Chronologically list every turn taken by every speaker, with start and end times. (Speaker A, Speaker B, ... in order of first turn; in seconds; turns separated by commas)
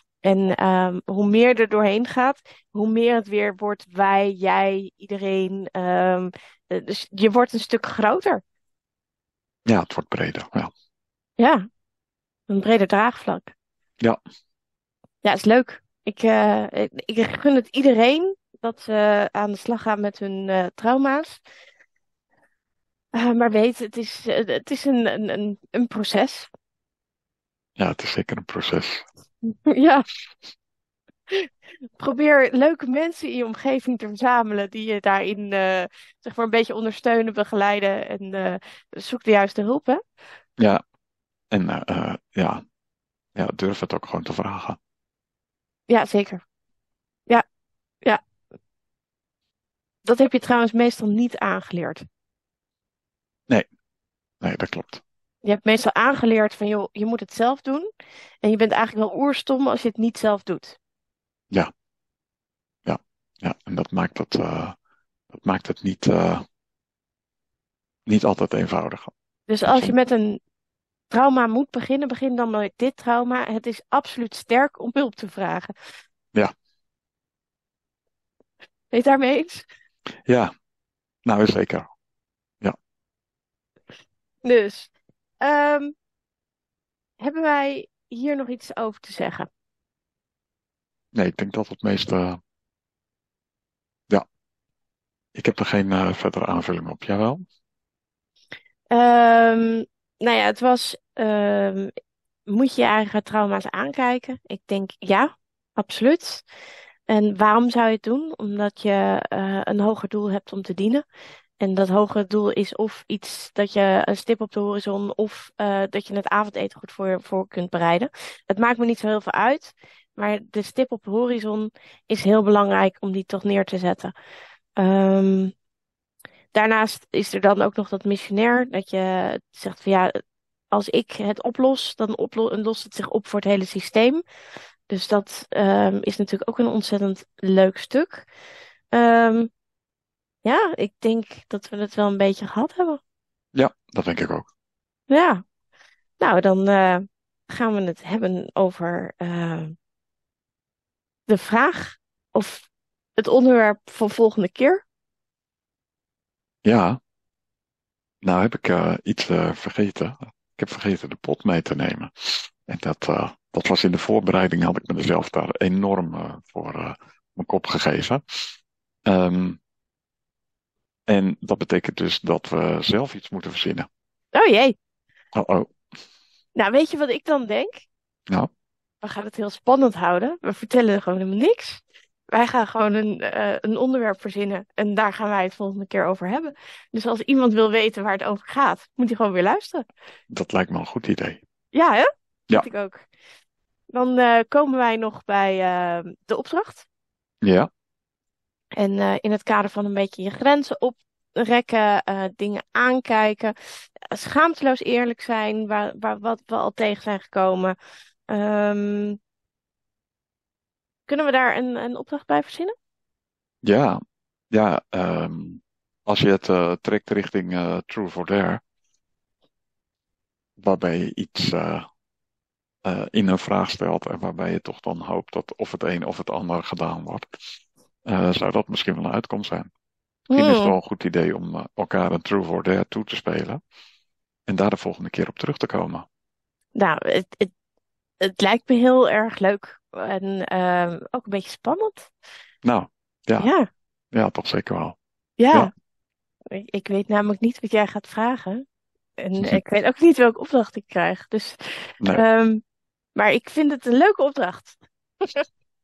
Speaker A: 0.2-8.4, Speaker B: 9.7-10.7, Speaker A: 11.4-11.6, Speaker A: 12.5-13.5, Speaker A: 15.2-21.4, Speaker A: 23.1-26.5, Speaker B: 27.8-29.0, Speaker A: 29.4-30.1, Speaker A: 31.3-40.0, Speaker B: 41.5-42.6, Speaker B: 43.3-44.8, Speaker A: 45.9-46.4, Speaker A: 50.0-52.0, Speaker B: 54.4-55.0, Speaker A: 55.4-57.9, Speaker A: 58.4-60.8, Speaker B: 62.9-64.8, Speaker B: 65.3-66.4, Speaker B: 68.1-69.1, Speaker A: 69.5-70.4, Speaker B: 69.7-69.9, Speaker A: 71.1-75.7, Speaker A: 78.9-79.7, Speaker B: 80.3-80.5, Speaker B: 81.2-81.9, Speaker A: 84.4-85.9, Speaker A: 87.2-89.5, Speaker B: 91.1-92.4, Speaker B: 95.3-97.4, Speaker A: 98.9-101.9, Speaker A: 102.5-106.4, Speaker A: 107.1-111.0, Speaker A: 111.6-124.1, Speaker A: 124.8-125.5, Speaker A: 126.5-130.2, Speaker A: 130.7-134.2, Speaker A: 134.9-138.3, Speaker A: 138.9-139.5, Speaker A: 140.4-143.0, Speaker B: 143.5-144.5, Speaker A: 145.1-145.4, Speaker A: 146.2-149.7, Speaker A: 151.3-154.8, Speaker B: 156.6-157.0, Speaker B: 158.2-168.2, Speaker B: 169.1-169.6, Speaker B: 171.1-173.9, Speaker A: 174.3-174.8, Speaker B: 175.3-175.7, Speaker A: 176.6-177.8, Speaker A: 179.0-189.8, Speaker B: 190.3-191.4, Speaker A: 191.7-193.1, Speaker A: 193.9-196.8, Speaker B: 197.4-197.7, Speaker A: 198.8-203.5, Speaker A: 204.1-207.7, Speaker A: 208.3-209.2, Speaker A: 211.1-212.7, Speaker B: 213.6-214.0, Speaker B: 214.5-218.6, Speaker B: 220.6-221.8, Speaker B: 222.8-227.2, Speaker B: 228.1-229.7, Speaker A: 230.3-230.7, Speaker B: 230.3-233.6, Speaker B: 234.5-236.1, Speaker A: 236.7-237.5, Speaker A: 238.2-242.1, Speaker B: 242.6-243.5, Speaker A: 243.4-243.7, Speaker B: 244.1-245.0, Speaker A: 245.4-245.7, Speaker A: 246.5-248.6, Speaker A: 249.2-252.6, Speaker A: 253.2-255.4